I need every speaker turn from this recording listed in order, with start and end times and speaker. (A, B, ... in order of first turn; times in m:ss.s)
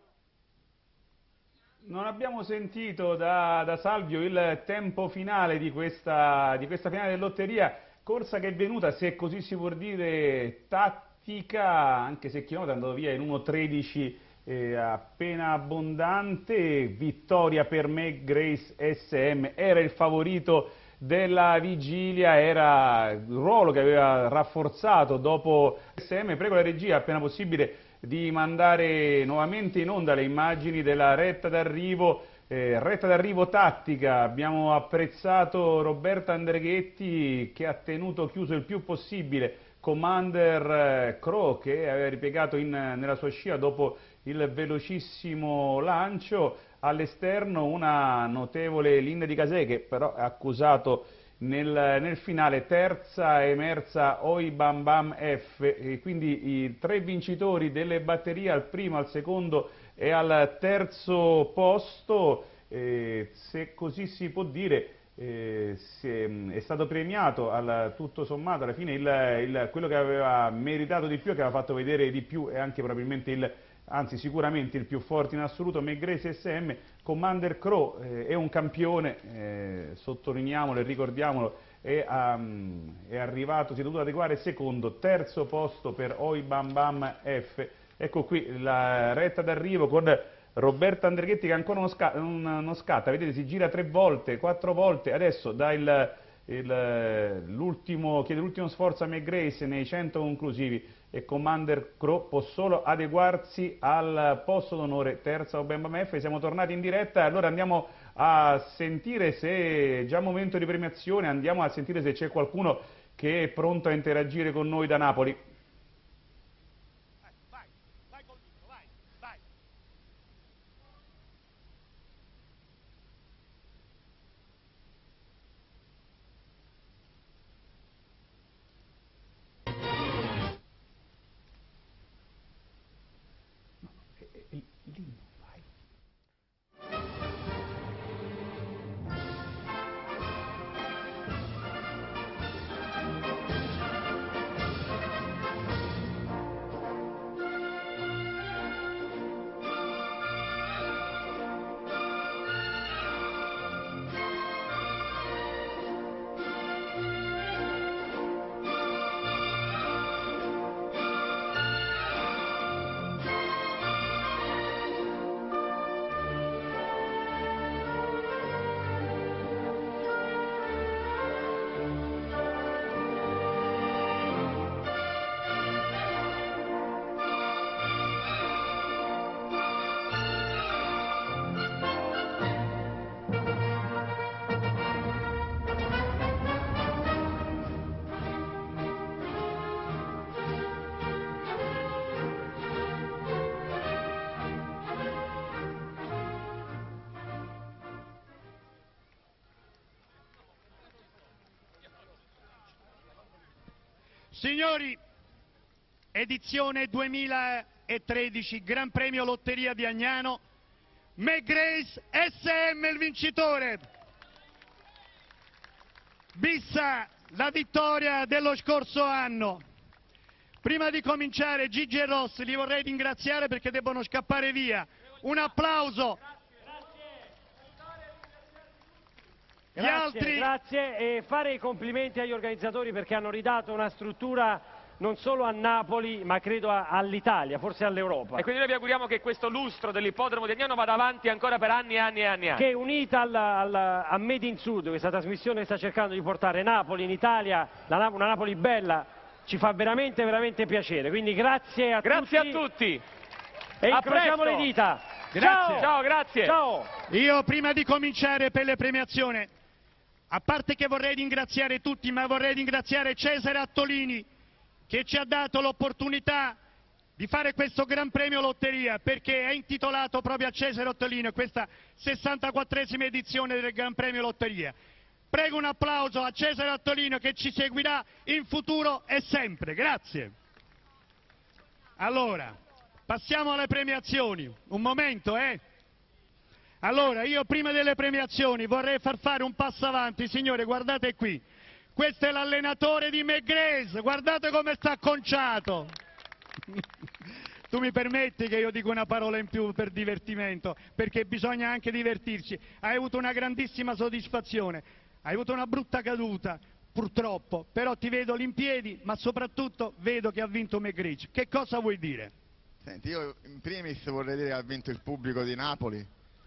0:01.8-1:55.4 A
1:58.1-1:58.8 B
2:14.2-2:15.6 A
3:24.3-3:25.0 B
3:26.1-3:30.4 B
3:31.2-3:33.8 B
3:36.3-3:39.6 B
3:40.6-3:46.2 B
3:49.8-3:50.5 B
3:49.8-3:58.4 C
3:58.3-4:02.6 D
4:02.6-4:12.6 C
4:12.0-4:13.0 D
4:13.8-4:15.9 C
4:13.8-4:14.7 D
4:15.4-4:15.9 B
4:15.6-4:16.6 D
4:16.4-4:16.9 C
4:17.1-4:19.5 B
4:20.3-4:24.3 B
4:24.9-4:26.6 B
4:27.2-4:34.8 B
4:35.3-4:40.3 B
4:42.0-4:42.6 B
4:43.1-4:45.6 B
4:46.8-4:55.9 B
4:57.7-5:12.3 B
5:12.8-5:16.1 E